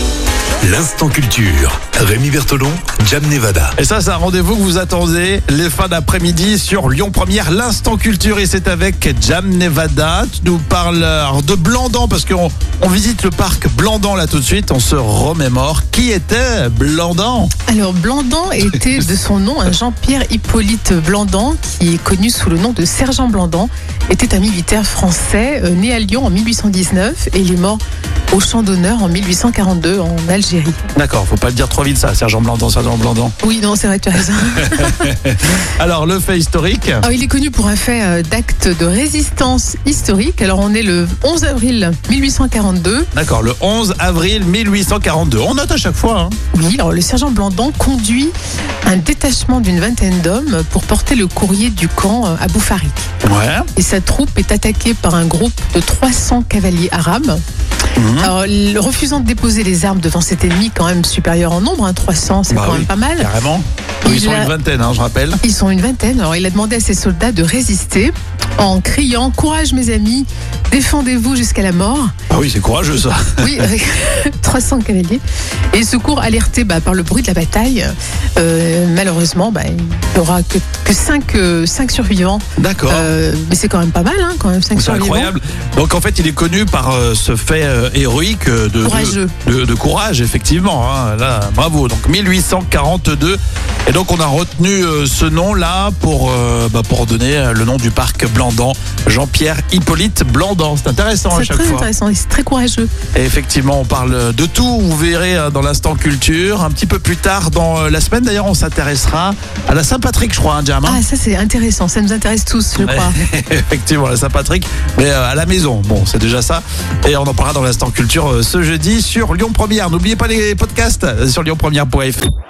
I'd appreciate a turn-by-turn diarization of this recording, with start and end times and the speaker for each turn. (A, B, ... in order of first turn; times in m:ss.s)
0:00.6-0:03.7 A
0:03.8-0:17.5 B
0:17.7-0:27.8 C
0:28.3-0:30.9 C
0:30.9-0:33.3 B
0:33.4-0:35.1 C
0:34.6-0:37.0 B
0:37.0-0:43.1 C
0:43.1-0:46.4 B
0:46.5-0:48.3 C
0:48.8-0:53.1 C
0:53.2-0:53.7 B
0:53.8-0:57.4 C
0:57.9-0:58.3 B
0:58.2-1:03.3 C
1:02.5-1:05.4 B
1:04.0-1:04.5 C
1:05.4-1:12.1 C
1:12.3-1:13.7 B
1:13.4-1:25.3 C
1:22.6-1:23.1 B
1:24.7-1:41.9 B
1:28.8-1:29.3 C
1:41.3-1:42.9 C
1:43.1-1:51.0 B
1:50.8-1:53.2 C
1:52.8-2:02.3 B